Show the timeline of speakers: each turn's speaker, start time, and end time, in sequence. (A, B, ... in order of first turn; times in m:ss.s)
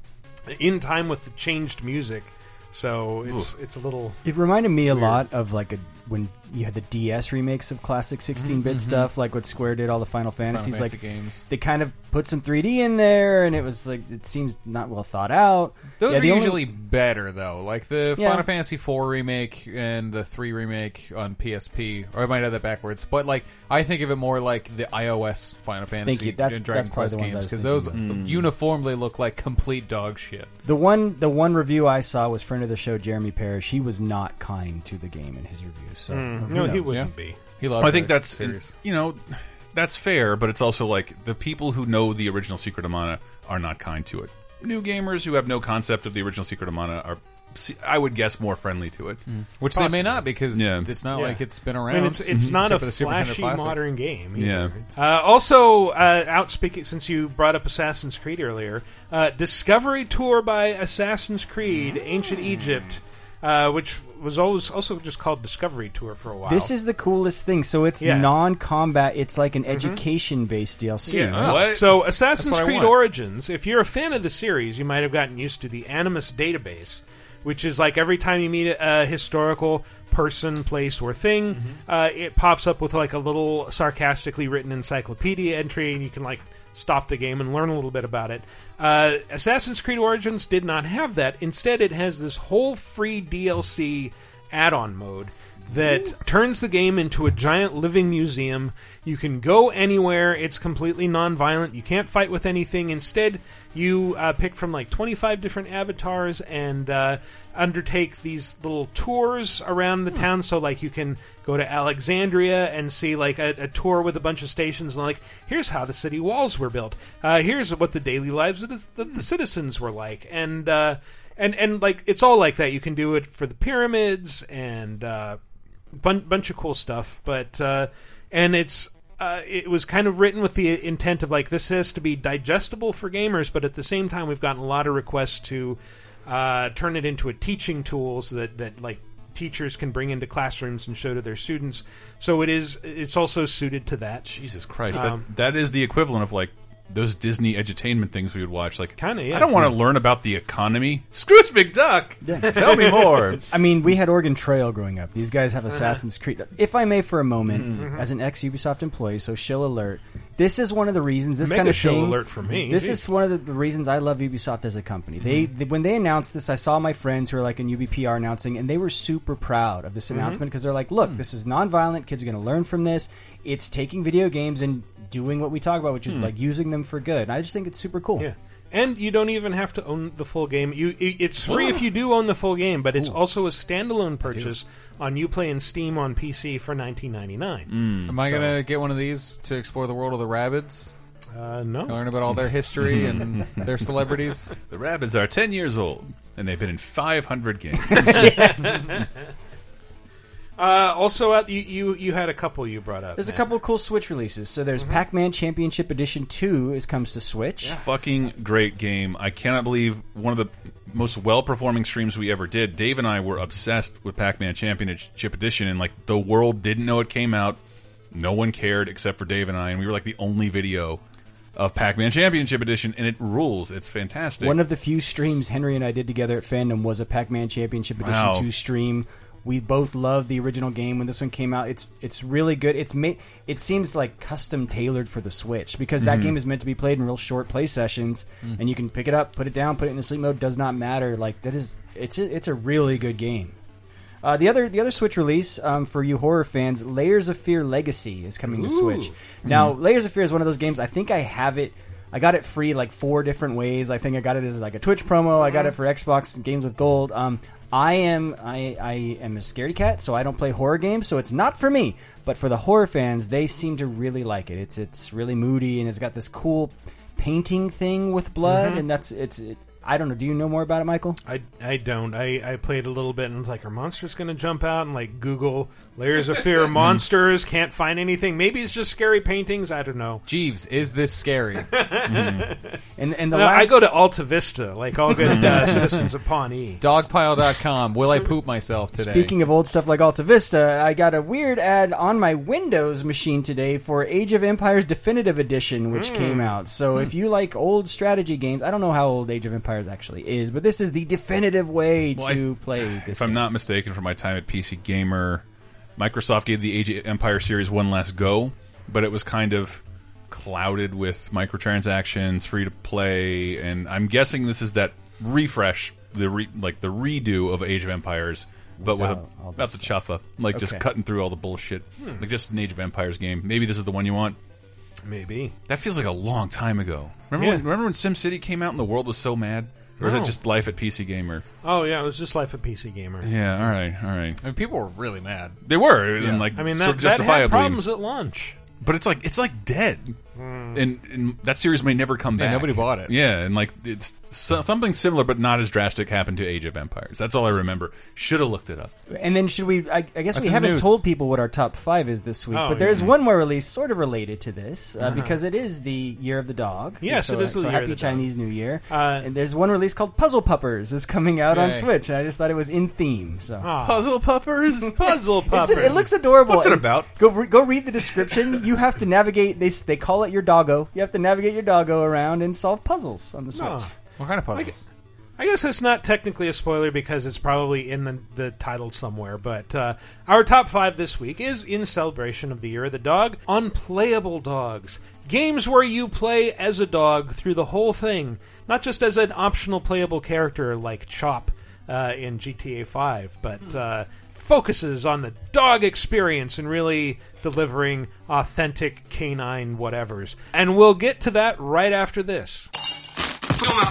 0:00.5-0:04.2 A
0:03.2-0:03.5 B
0:04.2-0:11.0 C
0:08.4-0:09.1 D
0:10.5-0:11.4 D
0:11.5-0:16.7 C
0:16.0-0:30.5 D
0:18.2-0:18.5 C
0:26.0-0:28.0 C
0:27.9-0:28.5 B
0:30.6-0:36.9 C
0:36.1-0:37.4 A
0:36.9-0:38.7 D
0:37.8-0:49.2 B
0:49.3-0:53.8 D
0:49.7-0:50.2 A
0:50.5-0:50.9 B
0:51.1-1:06.7 A
0:52.3-0:52.6 B
0:54.4-0:54.7 B
1:06.4-1:11.6 C
1:08.0-1:08.3 A
1:09.7-1:10.0 A
1:11.1-1:11.9 B
1:11.2-2:05.4 A
1:11.3-1:13.0 D
2:06.0-2:24.2 A
2:24.2-2:33.4 B
2:24.9-2:25.2 A
2:29.0-2:29.7 A
2:32.2-2:58.3 C
2:32.5-2:33.2 A
2:35.7-2:36.0 A
2:37.5-2:37.8 B
2:37.7-2:38.1 A
2:41.4-2:43.1 A
2:50.1-2:50.4 A
2:58.2-3:07.7 A
3:01.5-3:01.8 B
3:04.2-3:04.5 D
3:07.7-3:08.6 B
3:08.1-3:10.9 D
3:11.3-3:12.0 A
3:11.9-3:14.5 D
3:12.3-3:13.6 B
3:14.7-3:18.5 B
3:18.0-3:19.0 A
3:20.6-3:23.4 A
3:23.2-3:27.8 C
3:27.7-3:37.6 B
3:38.1-3:41.0 B
3:41.6-3:44.6 B
3:44.4-4:03.5 C
3:48.0-3:48.5 B
3:56.0-3:56.4 B
4:04.2-4:31.2 C
4:15.5-4:15.7 A
4:28.4-4:28.8 A
4:31.2-4:40.2 A
4:36.8-4:37.0 B
4:40.3-4:41.7 D
4:41.7-4:42.7 A
4:42.1-4:42.5 B
4:43.0-4:43.7 C
4:43.3-4:46.8 A
4:45.2-4:45.7 B
4:46.8-4:49.3 D
4:48.9-5:03.4 C
4:55.9-4:56.6 A
5:02.1-5:05.4 B
5:06.0-5:24.4 B
5:18.8-5:20.0 C
5:20.6-5:20.8 C
5:22.0-5:22.2 A
5:25.0-5:25.5 A
5:25.7-5:31.4 B
5:27.4-5:27.6 A
5:30.0-5:30.3 A
5:31.6-5:33.3 A
5:33.2-5:34.4 B
5:34.4-5:35.6 D
5:35.6-5:37.8 B
5:36.2-5:36.5 D
5:36.5-5:38.6 A
5:38.8-5:40.1 B
5:40.4-5:40.8 A
5:40.7-5:48.9 B
5:42.4-5:43.1 D
5:49.1-6:03.7 C
5:50.3-5:51.0 D
5:52.5-5:53.1 A
5:55.1-5:55.4 A
5:57.0-5:58.3 A
5:58.9-5:59.3 A
6:01.5-6:01.9 D
6:03.6-6:04.0 A
6:03.8-6:05.0 B
6:04.9-6:06.0 A
6:05.5-6:13.9 C
6:05.7-6:07.1 B
6:13.5-6:13.9 A
6:14.2-6:14.8 D
6:15.4-6:42.7 A